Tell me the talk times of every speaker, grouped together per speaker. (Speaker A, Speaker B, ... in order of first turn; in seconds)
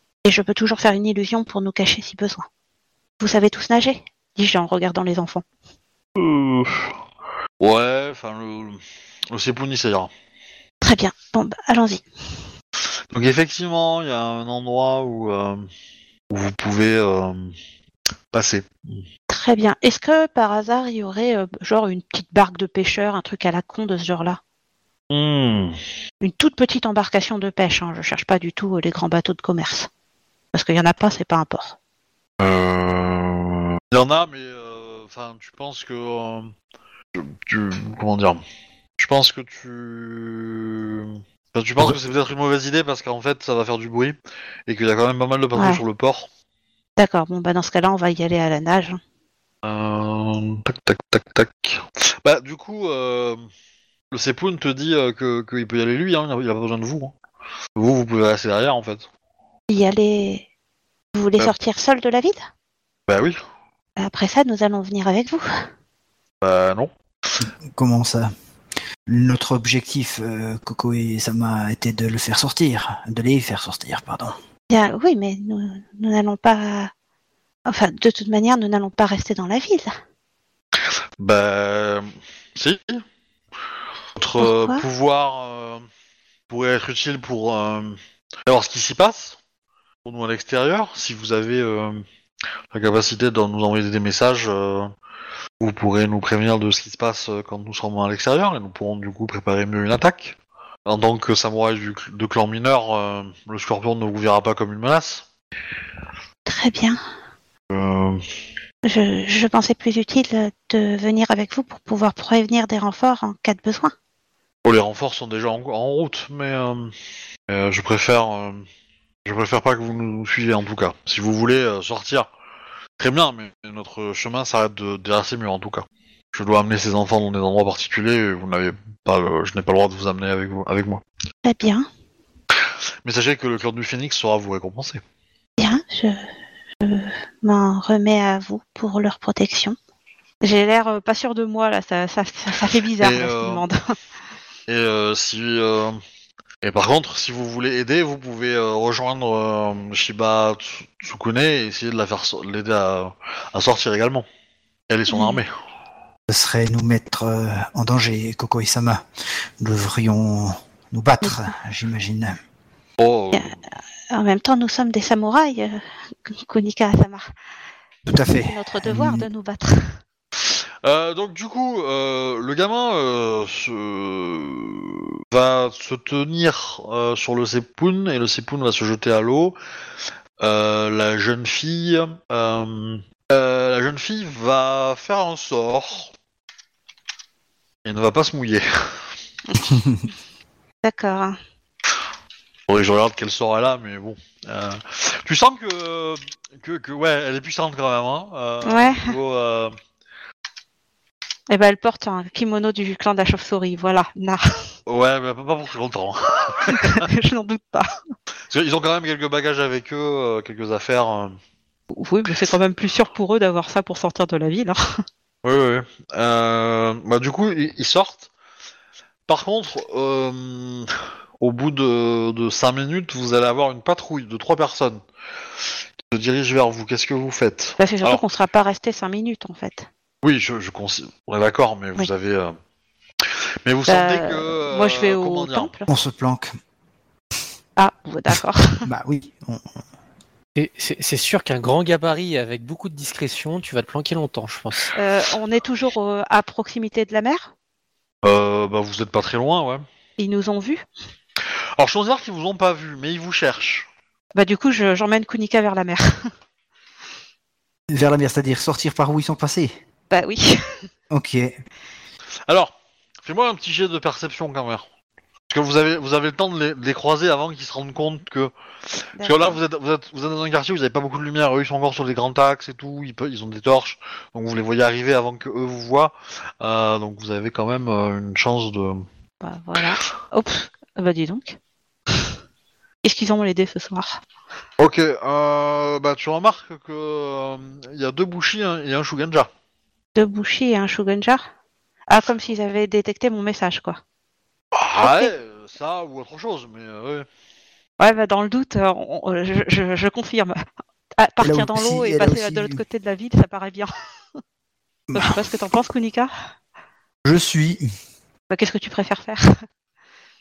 Speaker A: 0.2-2.5, 3.2-5.4, 10.8-12.1, 19.3-24.4, 26.2-29.9, 30.5-31.8, 45.6-45.8, 47.0-49.0, 59.7-60.5, 61.1-62.4, 64.0-65.5, 74.7-76.9, 77.7-79.9, 84.4-84.8, 106.5-107.0, 108.8-113.9, 131.4-131.9, 135.6-136.2, 136.8-139.8, 140.4-143.8, 155.1-155.4, 164.1-167.3, 168.4-170.0, 190.8-191.4, 198.7-199.2, 201.5-204.6, 206.7-208.0, 211.9-214.8, 227.8-229.9, 233.9-235.9, 237.8-238.9, 245.0-247.5, 250.2-250.9, 254.3-256.3, 260.1-260.6, 269.2-269.6, 279.4-281.6, 283.0-284.2, 290.1-291.5, 292.1-294.0, 295.0-295.3, 298.0-300.6, 301.2-303.9, 305.1-306.3, 308.5-309.6
Speaker B: 6.2-7.0, 7.6-10.1, 13.1-15.7, 16.3-17.5, 18.3-19.0, 25.1-25.8, 32.4-36.5, 37.1-38.4, 39.0-46.3, 49.6-53.4, 54.1-57.1, 57.8-59.1, 63.1-63.4, 66.4-66.9, 81.2-83.0, 84.2-85.8, 86.5-89.4, 90.0-92.0, 92.7-94.9, 95.6-105.3, 107.7-108.2, 114.7-116.9, 117.5-118.7, 119.3-122.3, 123.0-131.0, 133.1-135.0, 143.0-143.6, 144.7-146.0, 146.6-154.3, 154.9-155.5, 163.0-163.6, 170.4-179.6, 180.4-186.1, 187.8-189.1, 192.7-199.7, 204.9-207.1, 208.5-211.4, 215.4-218.3, 219.3-225.0, 226.0-228.2, 230.2-232.6, 233.7-235.7, 248.2-249.8, 251.8-253.9, 263.2-264.9, 265.5-279.1, 284.8-289.5, 294.7-297.3
Speaker C: 67.7-68.3, 69.1-74.3, 156.3-159.0, 159.6-162.4, 168.1-169.3, 235.9-236.5, 238.8-239.6, 257.9-259.7, 261.1-261.6, 301.4-302.8, 305.1-305.4, 307.2-307.9
Speaker D: 240.6-244.9